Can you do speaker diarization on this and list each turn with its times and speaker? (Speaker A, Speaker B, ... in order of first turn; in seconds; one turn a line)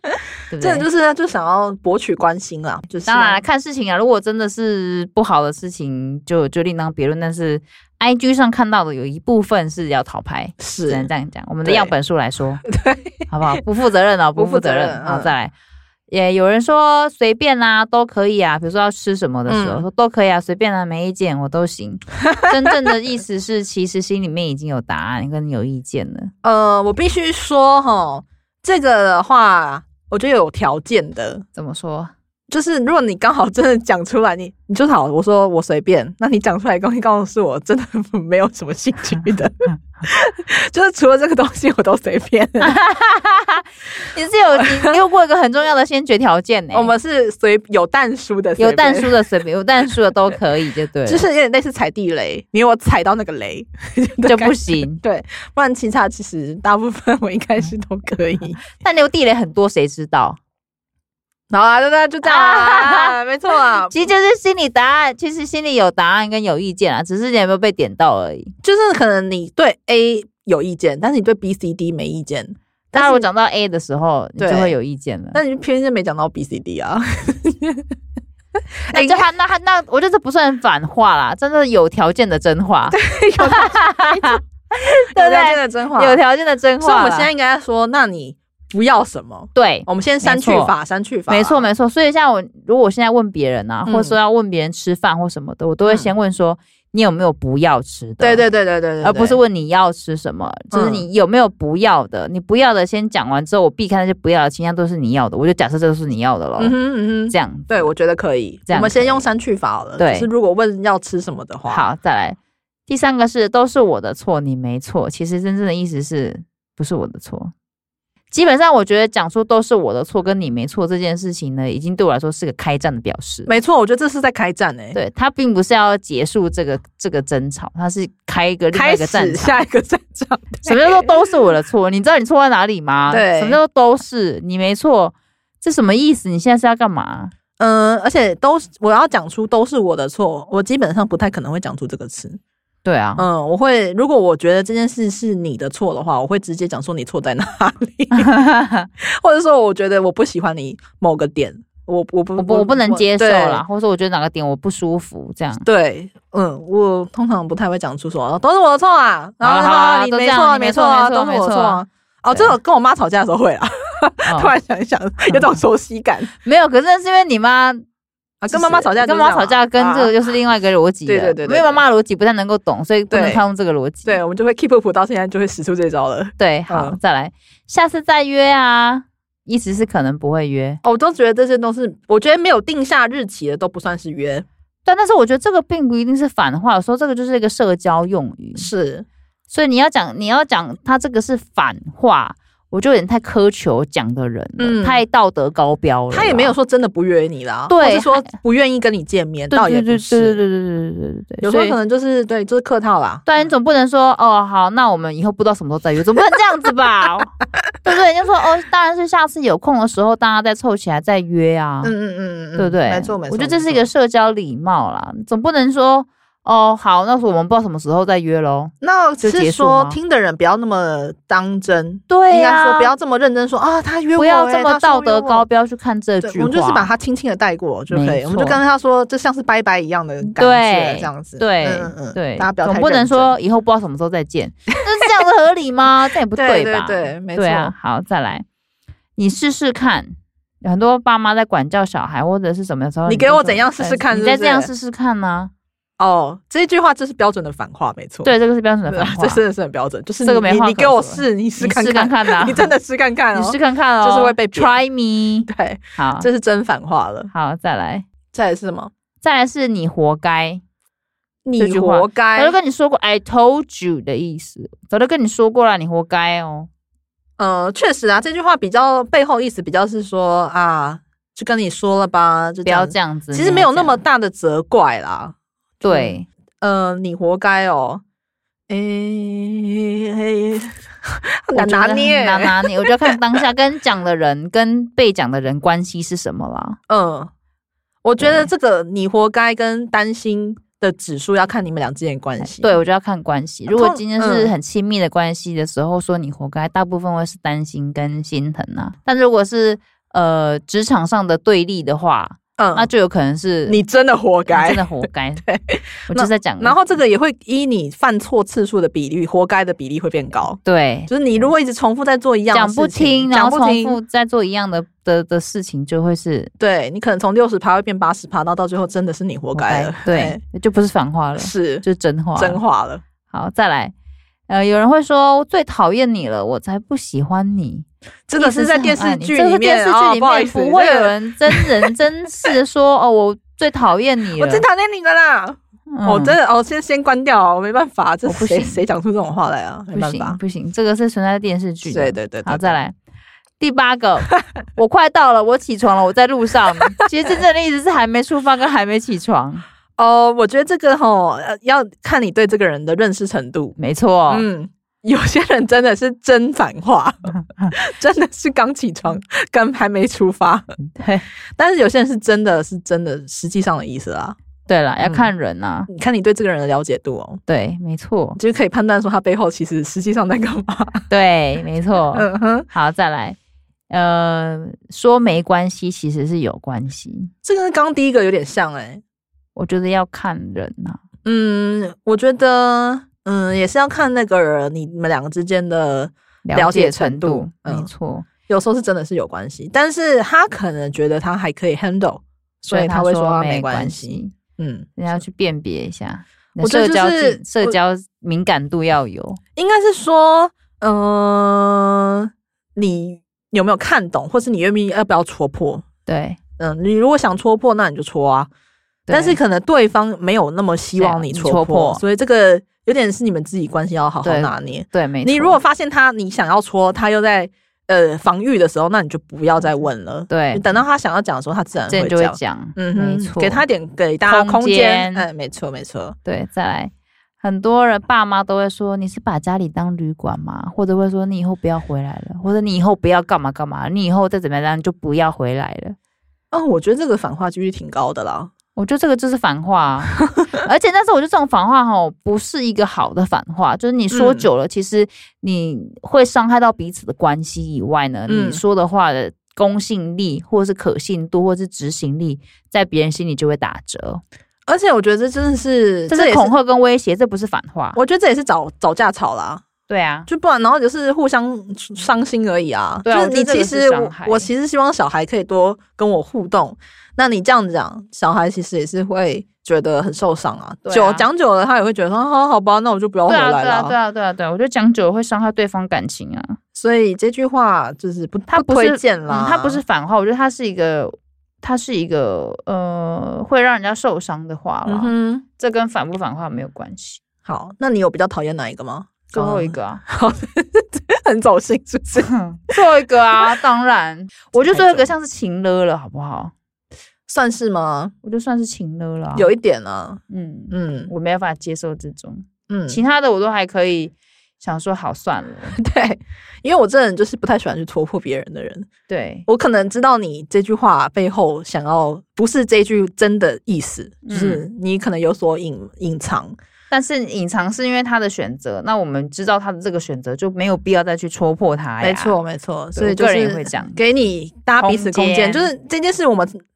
Speaker A: 0.5-0.8
Speaker B: 0.6-3.4
Speaker A: 3.0-12.6
Speaker B: 10.6-11.1
Speaker B: 11.6-11.9
Speaker B: 12.6-13.1
Speaker A: 13.3-15.5
Speaker B: 14.3-15.3
Speaker A: 16.1-26.3
Speaker B: 19.5-19.8
Speaker B: 26.4-31.4
Speaker A: 31.6-32.1
Speaker B: 32.5-42.7
Speaker A: 42.6-46.9
Speaker B: 44.6-44.9
Speaker B: 46.7-49.2
Speaker A: 48.6-51.2
Speaker B: 51.0-58.6
Speaker A: 54.2-55.0
Speaker A: 58.8-60.4
Speaker B: 61.5-64.0
Speaker A: 62.2-63.1
Speaker A: 63.8-68.5
Speaker B: 68.6-73.3
Speaker A: 72.9-75.4
Speaker B: 74.4-74.7
Speaker B: 75.3-77.8
Speaker B: 78.9-79.3
Speaker A: 78.9-87.3
Speaker B: 82.9-84.4
Speaker B: 85.2-86.2
Speaker B: 86.8-91.7
Speaker A: 89.5-90.7
Speaker A: 91.3-98.4
Speaker B: 93.8-94.2
Speaker B: 95.8-96.1
Speaker B: 98.2-99.4
Speaker A: 99.0-106.7
Speaker B: 100.7-101.0
Speaker B: 106.6-111.8
Speaker A: 107.3-107.9
Speaker A: 108.7-109.2
Speaker A: 110.0-110.3
Speaker A: 111.7-117.5
Speaker A: 118.3-123.5
Speaker B: 123.5-125.0
Speaker A: 124.9-129.6
Speaker B: 128.7-131.1
Speaker A: 130.6-137.3
Speaker B: 133.1-133.6
Speaker B: 137.6-142.4
Speaker A: 142.8-143.2
Speaker B: 143.2-148.3
Speaker A: 148.2-148.9
Speaker B: 149.0-153.6
Speaker A: 152.4-155.6
Speaker B: 155.6-166.3
Speaker A: 159.4-162.6
Speaker A: 164.2-164.5
Speaker A: 166.4-167.8
Speaker B: 168.4-170.2
Speaker A: 168.5-174.2
Speaker B: 171.1-171.8
Speaker B: 173.1-173.4
Speaker B: 174.1-177.0
Speaker A: 176.4-180.8
Speaker B: 180.8-184.4
Speaker A: 184.8-188.7
Speaker B: 188.6-189.1
Speaker A: 189.5-196.5
Speaker B: 194.6-195.0
Speaker B: 196.1-200.4
Speaker A: 197.7-198.3
Speaker A: 199.5-201.8
Speaker B: 201.4-203.3
Speaker A: 203.2-211.9
Speaker B: 211.8-213.8
Speaker A: 212.6-220.0
Speaker B: 218.8-225.5
Speaker A: 222.1-222.9
Speaker A: 224.2-226.9
Speaker B: 226.2-233.3
Speaker A: 227.9-228.6
Speaker A: 230.2-238.4
Speaker B: 236.3-237.7
Speaker A: 239.2-245.5
Speaker B: 243.1-244.7
Speaker B: 246.0-248.3
Speaker A: 248.2-249.4
Speaker B: 248.9-254.8
Speaker A: 250.2-252.7
Speaker A: 253.3-256.3
Speaker B: 255.5-257.3
Speaker A: 257.3-258.1
Speaker B: 258.3-258.9
Speaker A: 259.2-260.6
Speaker B: 261.4-262.6
Speaker A: 261.6-266.7
Speaker B: 267.4-278.0
Speaker A: 272.6-274.0
Speaker A: 275.8-276.3
Speaker B: 278.7-283.1
Speaker A: 281.5-286.8
Speaker B: 286.9-287.3
Speaker B: 288.0-292.8
Speaker A: 288.2-288.5
Speaker A: 292.4-303.8
Speaker B: 293.7-294.6
Speaker B: 302.6-302.9
Speaker B: 303.7-304.9
Speaker A: 304.5-305.4
Speaker B: 305.4-314.0
Speaker A: 306.1-306.8
Speaker A: 310.6-311.5
Speaker A: 312.5-316.5
Speaker B: 316.6-320.4
Speaker A: 319.5-322.6
Speaker B: 321.4-321.8
Speaker B: 322.4-323.0
Speaker A: 323.3-323.9
Speaker A: 324.5-334.6
Speaker B: 328.3-331.9
Speaker B: 334.4-340.4
Speaker A: 335.9-336.4
Speaker A: 338.2-338.8
Speaker A: 339.9-342.9
Speaker B: 341.9-342.8
Speaker A: 343.6-349.6
Speaker B: 350.0-353.8
Speaker A: 353.8-354.4
Speaker B: 354.3-360.7
Speaker A: 360.9-361.2
Speaker B: 361.6-364.4
Speaker A: 364.6-365.9
Speaker B: 365.0-365.3
Speaker B: 365.9-367.4
Speaker A: 367.5-368.4
Speaker B: 368.4-371.0
Speaker A: 371.1-373.4
Speaker B: 372.1-372.7
Speaker A: 373.9-377.3
Speaker B: 377.4-379.0
Speaker A: 379.5-381.0
Speaker B: 381.2-387.9
Speaker A: 386.4-388.3
Speaker B: 388.5-394.9
Speaker A: 392.7-394.3
Speaker A: 394.9-399.4
Speaker B: 396.6-397.8
Speaker B: 399.6-405.8
Speaker A: 406.1-406.4
Speaker B: 406.6-408.5
Speaker A: 409.1-409.4
Speaker B: 409.1-426.1
Speaker A: 410.9-412.0
Speaker A: 414.2-415.6
Speaker A: 420.3-420.8
Speaker A: 421.9-423.6
Speaker A: 424.2-425.3
Speaker A: 426.2-435.9
Speaker B: 436.5-438.5
Speaker A: 438.8-454.2
Speaker B: 444.1-444.5
Speaker B: 448.3-448.6
Speaker B: 454.7-456.5
Speaker A: 456.1-458.0
Speaker B: 457.9-459.6
Speaker A: 459.9-460.3
Speaker B: 460.3-473.9
Speaker A: 463.0-464.5
Speaker A: 470.8-471.2
Speaker A: 473.3-476.6
Speaker B: 476.7-479.8
Speaker A: 478.5-487.2
Speaker B: 484.9-485.4
Speaker B: 487.4-492.8
Speaker A: 489.3-490.0
Speaker A: 492.2-496.5
Speaker B: 494.6-495.1
Speaker B: 497.3-498.1
Speaker A: 498.2-499.5
Speaker B: 499.3-500.2
Speaker A: 500.3-505.8
Speaker B: 500.7-501.1
Speaker B: 502.7-503.0
Speaker B: 505.8-508.9
Speaker A: 509.1-509.4
Speaker B: 509.5-516.5
Speaker A: 514.2-514.6
Speaker A: 516.9-522.4
Speaker B: 522.0-526.6
Speaker A: 523.0-524.0
Speaker A: 524.8-525.7